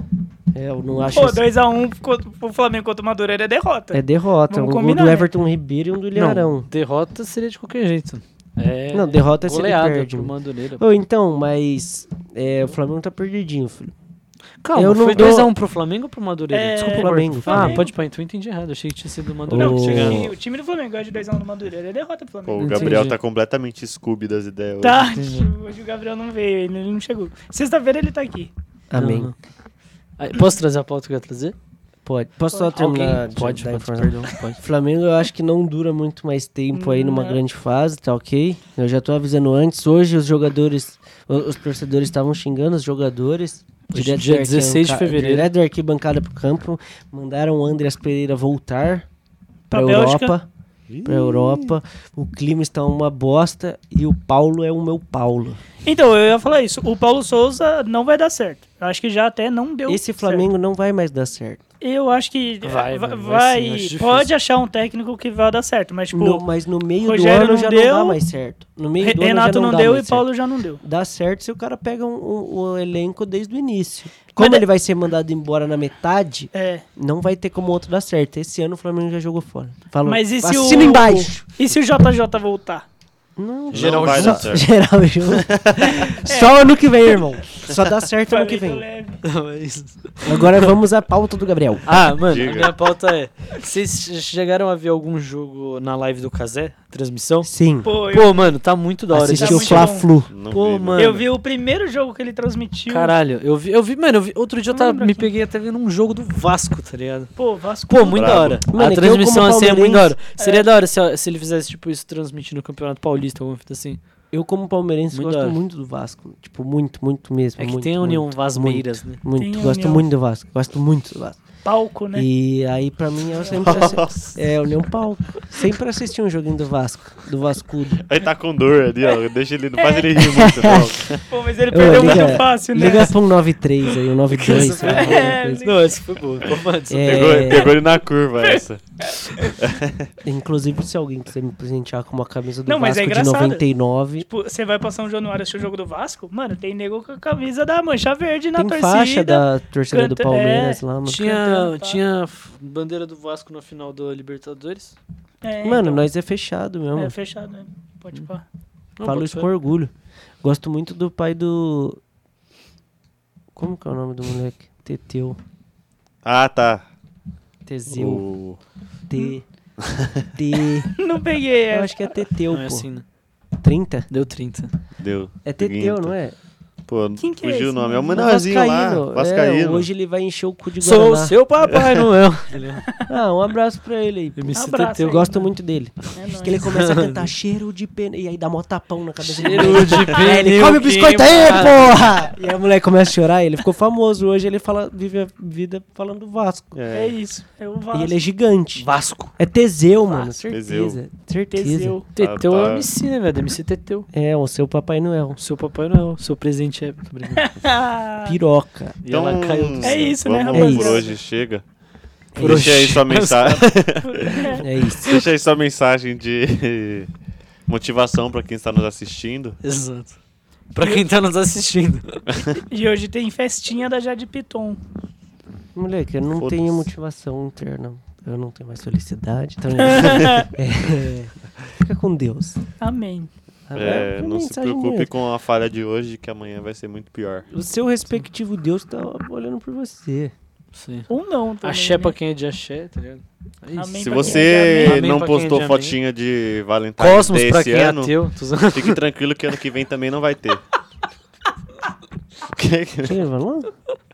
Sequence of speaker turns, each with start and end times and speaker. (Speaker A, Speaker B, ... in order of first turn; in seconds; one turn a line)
Speaker A: 0.5-1.4
Speaker B: 1.0-5.3
Speaker A: 3.9-6.7
Speaker C: 6.1-10.8
Speaker A: 8.9-13.9
Speaker C: 14.6-20.3
Speaker A: 14.7-15.5
Speaker B: 16.5-17.9
Speaker A: 16.8-17.8
Speaker A: 19.5-20.3
Speaker B: 19.6-23.0
Speaker D: 22.5-25.1
Speaker C: 22.6-23.2
Speaker B: 24.8-28.5
Speaker C: 25.1-25.5
Speaker A: 28.9-29.3
Speaker C: 28.9-29.3
Speaker C: 30.2-31.6
Speaker A: 32.0-49.0
Speaker B: 32.5-32.8
Speaker C: 32.7-34.6
Speaker B: 36.7-37.4
Speaker C: 43.9-45.5
Speaker B: 49.7-50.3
Speaker A: 49.7-50.5
Speaker D: 50.9-51.8
Speaker A: 51.0-55.6
Speaker B: 55.8-60.5
Speaker A: 59.9-61.6
Speaker B: 61.8-66.4
Speaker C: 62.6-64.3
Speaker A: 66.1-70.3
Speaker B: 67.0-68.2
Speaker B: 69.0-70.8
Speaker A: 70.8-81.5
Speaker B: 74.4-74.6
Speaker B: 76.5-76.8
Speaker B: 80.0-82.8
Speaker A: 83.4-88.8
Speaker D: 83.7-84.7
Speaker C: 83.7-84.6
Speaker D: 85.3-86.2
Speaker B: 85.8-86.7
Speaker B: 88.3-89.2
Speaker C: 89.2-90.6
Speaker A: 90.2-91.8
Speaker C: 91.8-101.2
Speaker D: 92.3-92.7
Speaker A: 97.4-97.9
Speaker B: 97.8-98.6
Speaker A: 99.1-100.3
Speaker B: 99.3-100.1
Speaker D: 100.3-101.2
Speaker B: 101.0-103.1
Speaker C: 102.9-107.3
Speaker B: 104.7-105.3
Speaker B: 107.3-108.4
Speaker C: 107.9-114.0
Speaker D: 108.1-108.6
Speaker A: 108.7-110.1
Speaker B: 110.4-110.7
Speaker A: 114.3-121.4
Speaker C: 115.1-115.6
Speaker C: 117.6-119.2
Speaker B: 119.4-120.0
Speaker B: 121.6-122.3
Speaker A: 122.1-128.0
Speaker D: 123.5-124.4
Speaker D: 128.0-131.3
Speaker B: 129.8-130.1
Speaker A: 130.2-131.2
Speaker B: 130.7-133.2
Speaker A: 131.7-135.7
Speaker D: 131.8-132.4
Speaker C: 134.3-137.5
Speaker B: 134.6-136.0
Speaker A: 136.9-137.7
Speaker D: 137.0-138.8
Speaker B: 137.5-137.8
Speaker B: 138.4-139.6
Speaker D: 139.4-140.1
Speaker A: 140.2-144.2
Speaker B: 142.7-143.6
Speaker B: 144.2-152.0
Speaker A: 148.6-151.3
Speaker C: 151.1-154.9
Speaker B: 155.4-156.1
Speaker A: 155.6-157.1
Speaker B: 156.9-158.4
Speaker C: 159.0-159.5
Speaker A: 159.0-159.9
Speaker A: 160.4-162.0
Speaker A: 163.6-165.4
Speaker D: 166.2-166.8
Speaker A: 167.7-168.2
Speaker D: 167.9-168.6
Speaker A: 169.1-169.4
Speaker D: 169.8-170.3
Speaker A: 170.3-170.9
Speaker B: 170.9-172.1
Speaker A: 171.7-172.9
Speaker C: 172.5-173.0
Speaker A: 173.6-174.1
Speaker C: 174.1-174.7
Speaker D: 175.0-176.1
Speaker A: 175.4-176.3
Speaker D: 176.9-179.9
Speaker B: 177.2-178.3
Speaker A: 178.1-181.3
Speaker C: 180.8-182.9
Speaker A: 183.1-196.7
Speaker C: 184.3-185.3
Speaker B: 184.5-185.4
Speaker B: 186.1-186.7
Speaker C: 186.6-187.3
Speaker C: 189.3-192.1
Speaker D: 189.9-190.3
Speaker D: 196.7-197.2
Speaker B: 196.9-198.1
Speaker A: 197.9-201.9
Speaker C: 198.8-199.3
Speaker D: 200.5-201.0
Speaker B: 201.5-202.1
Speaker C: 202.1-204.1
Speaker D: 202.2-202.9
Speaker A: 204.1-205.4
Speaker C: 205.4-207.5
Speaker B: 207.3-208.3
Speaker A: 208.2-209.0
Speaker C: 209.0-210.2
Speaker D: 209.1-211.6
Speaker B: 209.8-211.1
Speaker A: 210.5-211.0
Speaker A: 212.3-212.6
Speaker C: 212.4-213.8
Speaker D: 212.4-217.1
Speaker B: 214.0-214.6
Speaker A: 214.6-215.3
Speaker D: 217.7-219.6
Speaker C: 219.6-220.2
Speaker C: 220.7-222.2
Speaker B: 222.7-224.8
Speaker A: 225.7-232.6
Speaker D: 226.4-226.8
Speaker B: 229.8-230.5
Speaker B: 232.8-233.3
Speaker A: 233.7-235.1
Speaker D: 233.7-237.5
Speaker A: 237.5-240.3
Speaker C: 240.7-241.1
Speaker B: 241.1-242.1
Speaker C: 241.6-246.0
Speaker B: 243.8-245.0
Speaker D: 244.0-250.6
Speaker C: 247.0-249.0
Speaker D: 252.4-253.2
Speaker A: 253.0-253.7